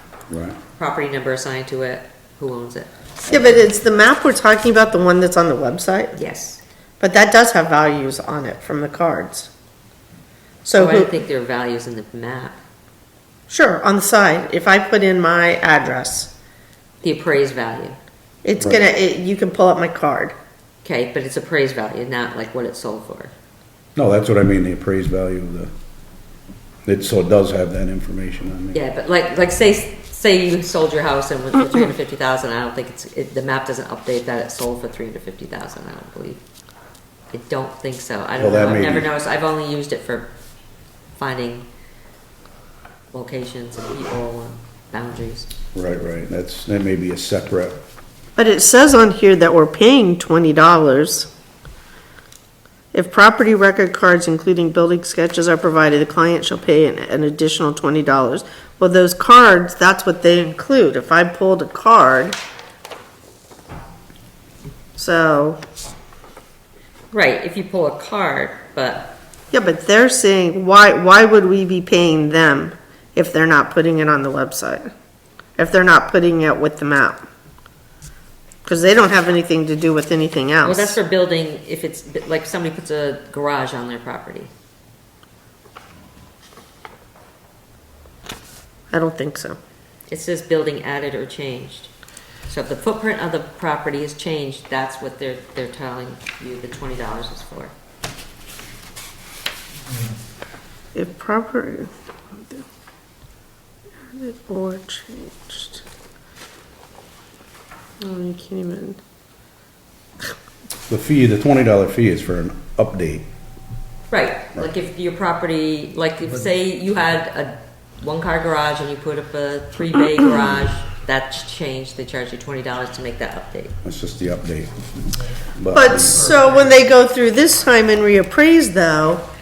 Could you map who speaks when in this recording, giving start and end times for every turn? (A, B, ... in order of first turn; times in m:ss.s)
0:00.3-0:00.6 A
0:00.8-0:02.9 B
0:03.3-0:06.2 C
0:06.2-0:06.6 B
0:07.0-0:09.5 C
0:10.6-0:11.1 C
0:10.7-0:12.6 B
0:13.5-0:16.3 C
0:17.0-0:18.0 B
0:18.4-0:20.3 C
0:20.8-0:23.3 B
0:24.0-0:25.7 A
0:26.9-0:28.8 A
0:28.7-0:36.4 B
0:37.3-0:40.3 B
0:38.4-0:39.1 A
0:41.2-0:41.7 B
0:43.1-0:45.5 B
0:45.7-0:47.8 A
0:48.4-0:51.3 C
0:52.9-1:02.4 C
1:05.0-1:05.6 C
1:07.1-1:09.1 B
1:09.5-1:14.9 C
1:15.6-1:17.2 C
1:18.6-1:21.0 C
1:20.6-1:24.5 B
1:28.9-1:29.6 C
1:30.1-1:31.9 B
1:32.5-1:37.7 B
1:40.9-1:42.6 C
1:44.1-1:45.8 C
1:48.0-1:49.0 C
1:50.9-1:53.3 A
1:54.1-2:03.8 B
2:03.8-2:04.8 A
2:05.6-2:06.3 A
2:05.7-2:09.2 C